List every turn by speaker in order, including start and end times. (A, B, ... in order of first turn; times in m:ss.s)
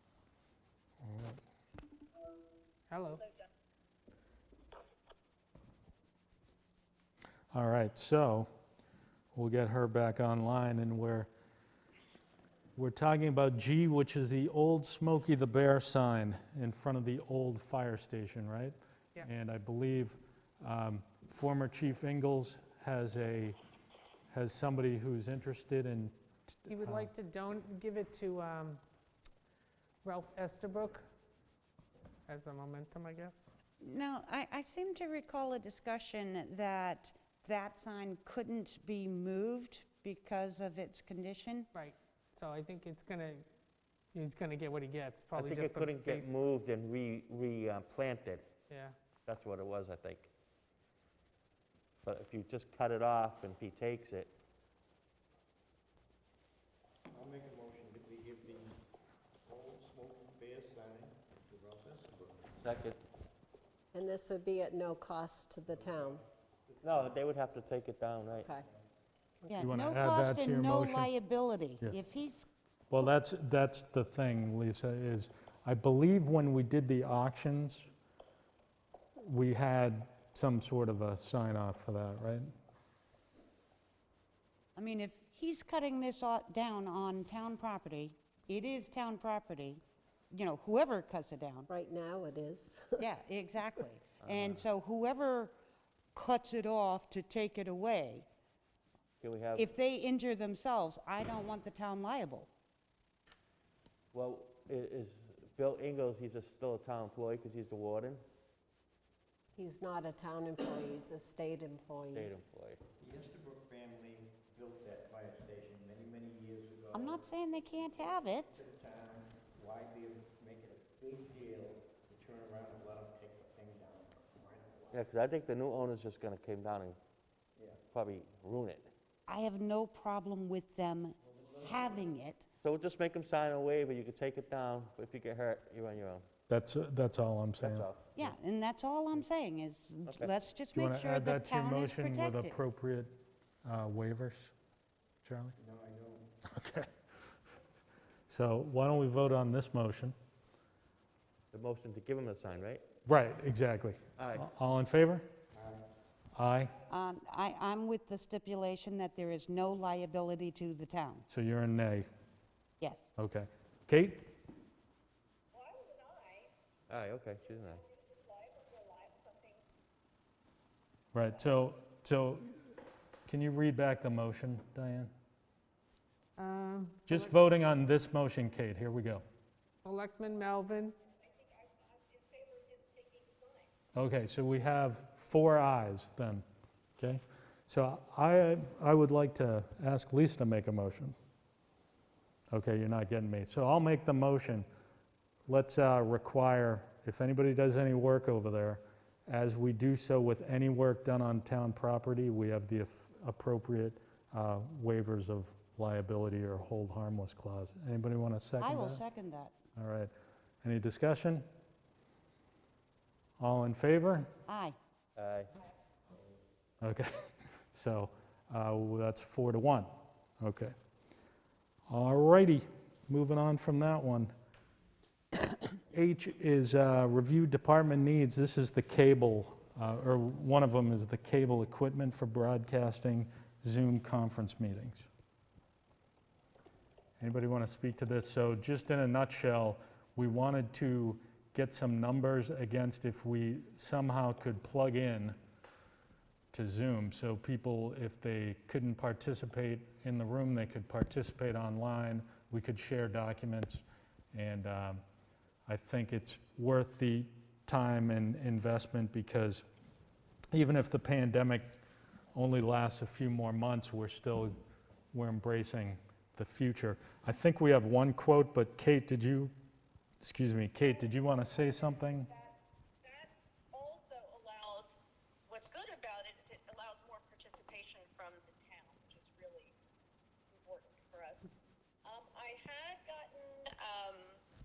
0:01.0-0:01.4 A
0:02.9-0:03.3 B
0:07.5-0:08.5 A
0:09.3-0:11.3 A
0:12.8-0:23.6 A
0:24.3-0:27.1 A
0:26.7-0:28.8 B
0:30.0-0:31.1 B
0:32.3-0:33.4 B
0:33.8-0:41.7 C
0:41.7-0:43.4 B
0:44.1-0:46.4 B
0:45.4-0:48.5 D
0:48.7-0:49.0 B
0:49.3-0:50.3 D
0:52.0-0:54.3 D
0:57.1-0:58.8 E
0:59.5-1:02.5 E
1:02.6-1:03.0 D
1:03.9-1:06.2 F
1:06.8-1:08.5 D
1:06.8-1:07.2 E
1:08.4-1:08.7 F
1:09.5-1:12.5 C
1:09.6-1:11.1 A
1:12.9-1:17.9 A
1:19.2-1:22.5 A
1:24.8-1:31.7 C
1:31.7-1:33.1 F
1:33.0-1:35.5 C
1:34.2-1:34.6 D
1:36.2-1:38.3 C
1:39.2-1:39.7 D
1:39.6-1:42.5 C
1:44.1-1:48.2 D
1:49.6-1:52.3 F
1:52.1-1:52.8 D
1:53.0-1:57.3 E
1:56.9-1:58.6 C
1:57.8-2:05.0 E
2:04.9-2:07.0 D
2:07.9-2:08.9 D
2:09.3-2:12.5 C
2:12.6-2:16.3 D
2:16.5-2:17.9 A
2:17.6-2:18.1 D
2:18.1-2:22.6 C
2:20.7-2:24.5 A
2:25.2-2:25.6 A
2:25.6-2:26.3 E
2:26.5-2:26.9 A
2:28.3-2:30.2 A
2:31.5-2:32.8 D
2:33.1-2:35.3 A
2:34.2-2:34.5 D
2:35.6-2:35.8 E
2:36.4-2:36.7 A
2:36.9-2:41.3 C
2:41.3-2:42.1 A
2:42.8-2:43.1 C
2:43.2-2:44.3 A
2:45.5-2:46.5 G
2:46.9-2:47.8 D
2:47.4-2:49.6 G
2:51.1-2:52.7 A
2:53.3-2:55.1 A
2:56.4-2:57.4 B
2:57.1-2:59.2 A
2:59.8-3:01.0 B
3:01.0-3:03.7 G
3:04.0-3:06.4 A
3:07.0-3:11.2 A
3:12.5-3:14.7 A
3:15.5-3:29.0 A
3:28.6-3:29.5 C
3:29.8-3:30.1 A
3:30.6-3:31.4 A
3:33.4-3:34.3 A
3:34.5-3:34.8 C
3:35.2-3:35.5 D
3:36.8-3:40.7 A
3:41.9-3:44.3 A
3:45.9-3:55.1 A
3:57.2-4:05.4 A
4:06.5-4:15.0 A
4:15.7-4:19.6 A
4:20.5-4:21.7 A
4:22.3-4:24.6 A
4:25.1-4:29.5 A
4:30.2-4:32.3 A
4:30.8-4:39.8 G
4:40.5-4:41.5 G
4:42.0-4:44.4 G